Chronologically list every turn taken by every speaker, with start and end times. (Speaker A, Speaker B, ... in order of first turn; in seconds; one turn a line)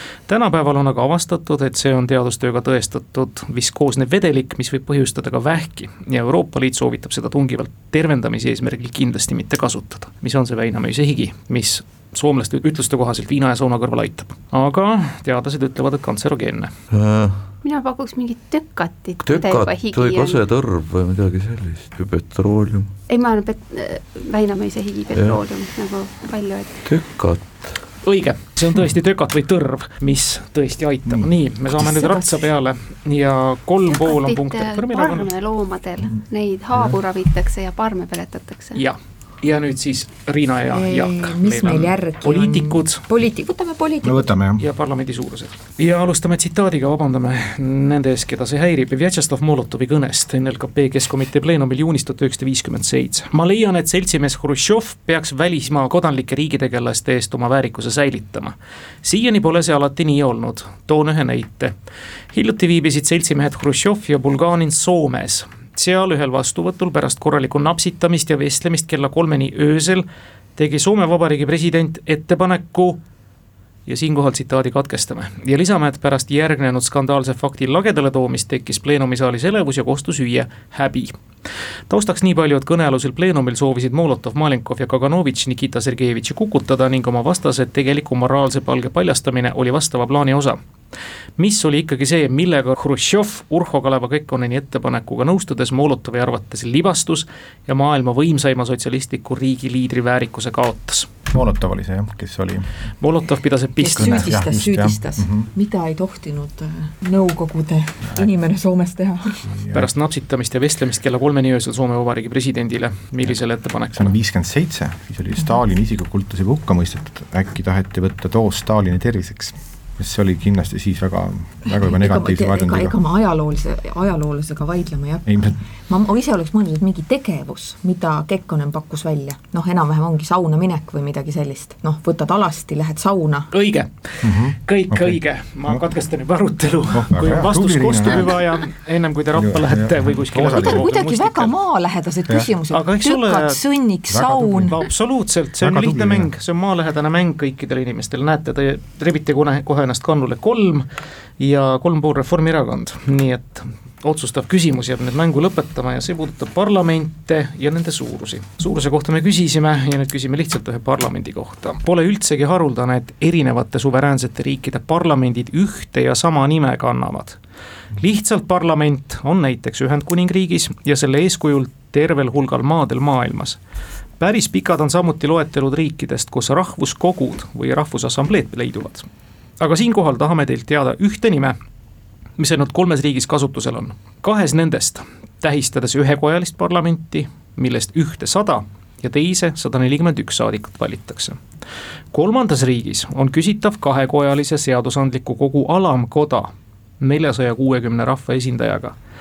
Speaker A: 0.3-16.7
Speaker B: 16.9-17.4
Speaker C: 17.6-20.4
Speaker B: 19.2-22.9
Speaker C: 23.1-26.8
Speaker B: 25.1-25.4
Speaker B: 26.9-27.7
Speaker A: 28.0-35.3
Speaker D: 31.1-31.3
Speaker E: 31.8-32.4
Speaker C: 33.9-38.8
Speaker A: 38.8-43.0
Speaker E: 40.7-44.4
Speaker D: 44.0-44.6
Speaker A: 44.6-61.7
Speaker A: 62.3-70.0
Speaker A: 70.6-73.0
Speaker A: 73.9-81.2
Speaker A: 81.9-90.6
Speaker A: 91.4-101.1
Speaker D: 101.3-102.7
Speaker A: 103.0-104.4
Speaker E: 103.8-109.5
Speaker D: 104.0-105.5
Speaker D: 109.5-109.9
Speaker A: 109.7-114.1
Speaker D: 113.9-123.0
Speaker E: 121.8-133.5
Speaker D: 125.3-125.6
Speaker A: 133.5-141.5
Speaker D: 134.2-135.8
Speaker D: 136.9-138.4
Speaker D: 139.3-140.9
Speaker E: 140.4-144.8
Speaker D: 142.3-142.5
Speaker A: 142.7-143.6
Speaker D: 144.1-144.8
Speaker A: 144.7-150.9
Speaker D: 145.6-146.3
Speaker A: 151.4-167.4
Speaker A: 168.0-173.6
Speaker A: 174.2-179.1
Speaker A: 179.6-181.6
Speaker A: 182.4-191.4
Speaker A: 192.1-198.9